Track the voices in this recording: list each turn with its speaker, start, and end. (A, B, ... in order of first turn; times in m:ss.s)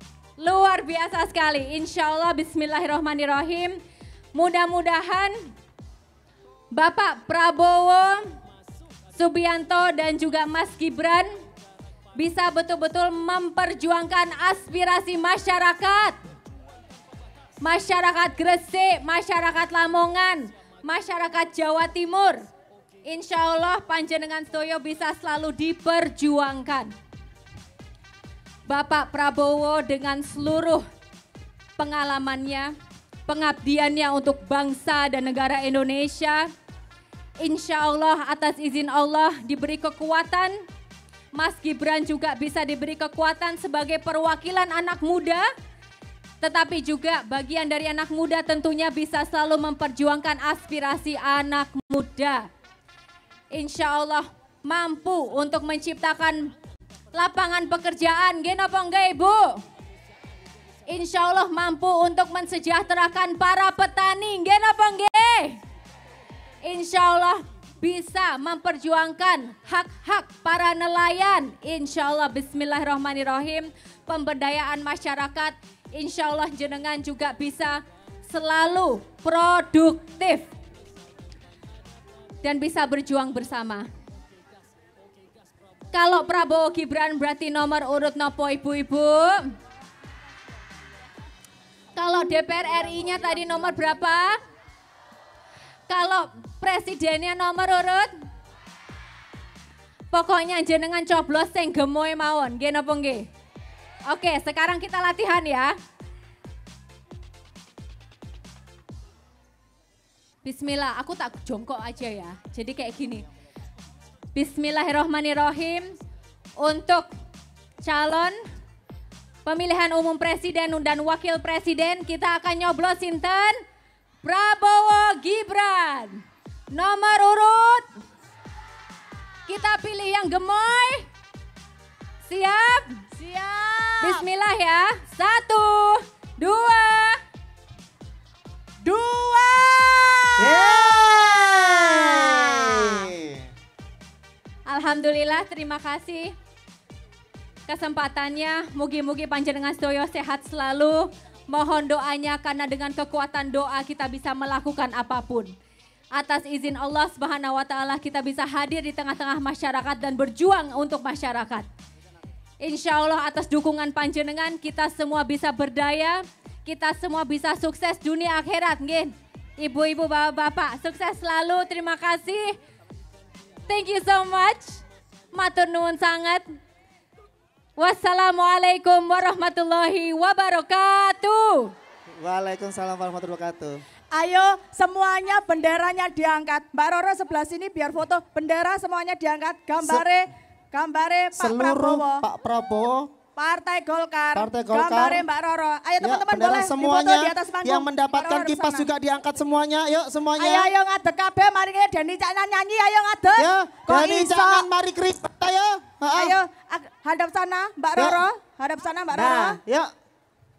0:00.4-0:03.8 A
0:04.3-0:05.5 A
0:06.7-0:08.2 A
0:09.2-0:11.3 A
0:12.1-0:16.2 A
0:17.6-0:22.5 A
0:23.0-0:26.9 A
0:28.7-0:30.8 A
0:31.8-0:32.7 A
0:33.3-0:36.5 A
0:37.4-0:40.6 A
0:41.3-0:45.4 A
0:46.4-0:52.5 A
0:53.5-0:56.5 A
0:57.1-0:59.6 A
1:00.8-1:05.6 A
1:06.6-1:20.4 A
1:22.4-1:23.9 A
1:25.9-1:29.5 A
1:31.9-1:34.4 A
1:35.9-1:38.1 A
1:40.1-1:43.3 A
1:44.1-1:45.7 A
1:50.4-1:53.3 A
1:54.3-1:55.9 A
1:56.6-1:57.1 A
1:57.8-1:58.4 A
1:59.4-2:03.6 A
2:04.2-2:07.9 A
2:09.5-2:11.0 A
2:12.3-2:13.0 A
2:13.2-2:14.2 B
2:14.0-2:17.2 A
2:18.8-2:23.1 B
2:20.4-2:23.5 C
2:24.6-2:26.3 A
2:27.7-2:35.5 A
2:36.2-2:41.7 A
2:42.6-2:52.6 A
2:53.7-2:54.8 A
2:55.3-2:56.4 A
2:57.8-3:01.7 A
3:02.2-3:03.8 C
3:04.1-3:12.2 B
3:11.4-3:13.1 C
3:13.4-3:18.9 B
3:14.3-3:15.2 C
3:16.0-3:20.7 C
3:20.4-3:24.6 B
3:23.4-3:26.4 C
3:26.1-3:29.6 B
3:28.0-3:28.2 C
3:29.1-3:29.9 C